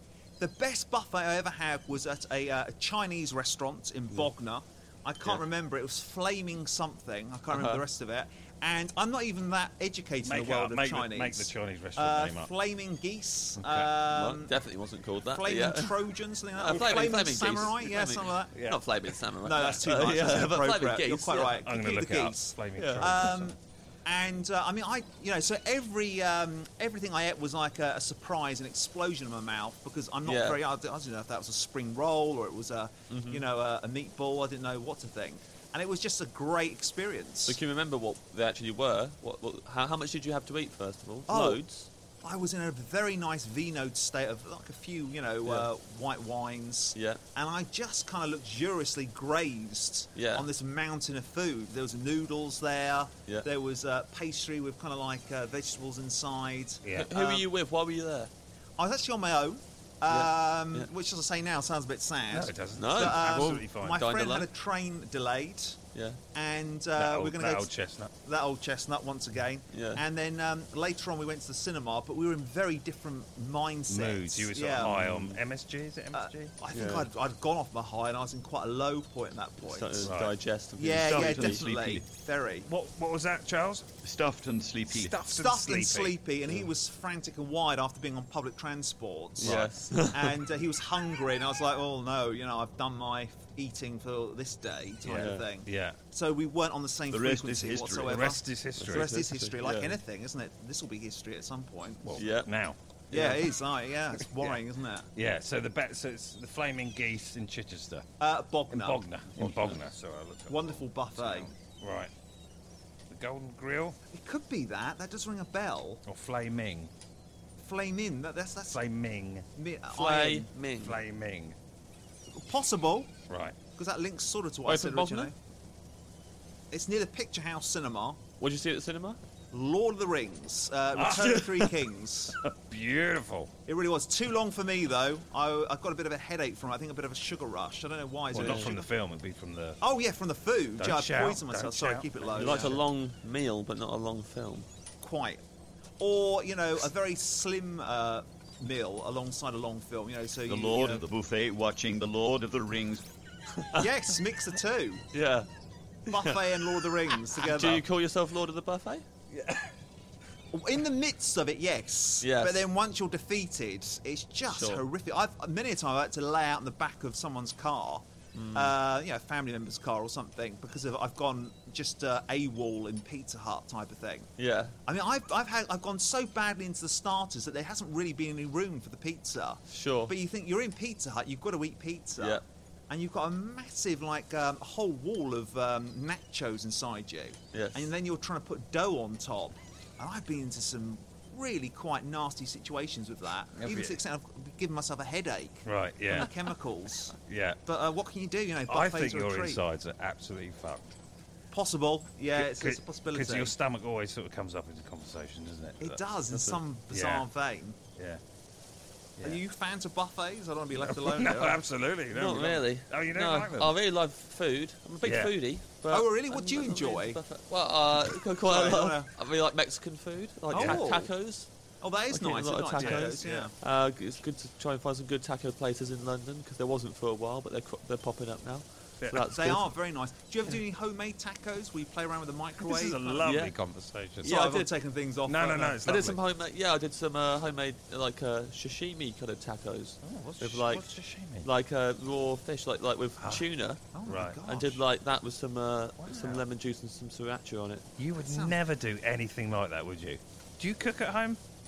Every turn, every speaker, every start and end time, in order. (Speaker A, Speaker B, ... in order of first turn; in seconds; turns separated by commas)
Speaker A: 0.4-14.6, Speaker B: 7.5-7.8, Speaker C: 10.2-12.5, Speaker C: 13.6-13.9, Speaker B: 14.1-16.0, Speaker A: 15.3-18.6, Speaker B: 16.6-21.6, Speaker C: 16.7-17.0, Speaker C: 18.6-18.8, Speaker A: 19.4-37.6, Speaker C: 21.6-23.6, Speaker B: 22.8-23.3, Speaker B: 30.2-30.6, Speaker B: 33.1-33.4, Speaker B: 37.5-41.9, Speaker A: 41.3-41.6, Speaker A: 42.2-57.5, Speaker B: 47.0-47.2, Speaker B: 50.2-50.5, Speaker C: 56.8-57.1, Speaker B: 56.9-58.3, Speaker A: 58.8-65.8, Speaker B: 60.1-60.9, Speaker C: 62.3-64.0, Speaker B: 62.8-64.5, Speaker B: 65.9-66.2, Speaker A: 66.3-67.7, Speaker C: 67.0-68.1, Speaker A: 68.2-75.0, Speaker B: 69.7-70.0, Speaker C: 73.9-76.5, Speaker B: 74.8-75.4, Speaker A: 76.1-80.1, Speaker B: 76.7-77.1, Speaker B: 79.6-81.6, Speaker C: 80.0-80.3, Speaker A: 80.8-82.7, Speaker D: 81.1-82.0, Speaker C: 82.7-83.9, Speaker D: 84.0-85.2, Speaker C: 84.9-86.2, Speaker A: 85.2-102.2, Speaker C: 89.4-89.7, Speaker B: 89.4-90.4, Speaker C: 95.1-96.0, Speaker B: 95.1-95.5, Speaker D: 97.1-98.2, Speaker C: 98.1-99.2, Speaker B: 98.8-100.0, Speaker C: 102.0-102.8, Speaker B: 102.2-102.5, Speaker B: 103.1-103.5, Speaker A: 103.1-105.1, Speaker C: 105.2-108.1, Speaker A: 108.2-109.0, Speaker C: 108.7-112.1, Speaker B: 109.4-109.8, Speaker A: 110.5-111.5, Speaker C: 113.1-114.0, Speaker A: 114.1-116.0, Speaker C: 116.1-116.9, Speaker A: 117.6-118.9, Speaker C: 118.7-119.5, Speaker A: 119.6-120.5, Speaker B: 119.9-121.0, Speaker C: 120.8-121.6, Speaker A: 122.3-123.1, Speaker C: 123.3-123.6, Speaker A: 123.7-125.3, Speaker B: 124.7-125.3, Speaker A: 126.7-128.2, Speaker B: 128.4-129.2, Speaker A: 129.5-132.4, Speaker C: 130.9-131.5, Speaker B: 131.4-131.7, Speaker C: 132.4-133.5, Speaker A: 133.7-138.9, Speaker C: 138.3-139.8, Speaker B: 138.3-138.8, Speaker A: 139.8-142.8, Speaker C: 140.8-142.8, Speaker B: 142.3-144.7, Speaker A: 145.0-145.4, Speaker A: 146.0-151.0, Speaker D: 150.5-153.0, Speaker B: 153.6-153.9, Speaker A: 153.8-155.1, Speaker B: 155.1-155.5, Speaker B: 156.1-159.1, Speaker A: 156.1-157.8, Speaker A: 160.5-174.3, Speaker B: 162.2-162.7, Speaker B: 164.5-164.8, Speaker B: 168.3-168.7, Speaker B: 174.4-174.8, Speaker A: 174.9-199.6, Speaker B: 179.7-180.1, Speaker B: 182.2-182.4, Speaker B: 187.5-187.9, Speaker C: 193.6-194.0, Speaker C: 195.7-196.3, Speaker C: 197.3-197.6, Speaker C: 198.7-200.9, Speaker A: 201.5-203.6, Speaker C: 202.3-207.2, Speaker A: 205.8-207.8, Speaker C: 208.0-208.2, Speaker A: 209.2-211.6, Speaker C: 210.8-213.7, Speaker B: 212.1-221.5, Speaker C: 215.0-215.3, Speaker A: 215.9-217.2, Speaker A: 218.4-219.1, Speaker A: 220.5-221.1, Speaker C: 220.5-220.8, Speaker A: 221.8-223.5, Speaker B: 222.1-229.6, Speaker C: 222.8-223.5, Speaker C: 229.0-229.3, Speaker A: 229.3-233.2, Speaker C: 232.7-234.4, Speaker B: 233.2-233.6, Speaker B: 234.2-234.7, Speaker A: 234.2-236.0, Speaker C: 235.3-236.2, Speaker B: 235.8-240.8, Speaker C: 240.0-241.5, Speaker B: 241.4-243.8, Speaker A: 243.9-244.8, Speaker C: 244.1-244.4, Speaker B: 244.5-247.9, Speaker C: 246.0-246.4, Speaker C: 248.0-251.4, Speaker A: 248.2-248.6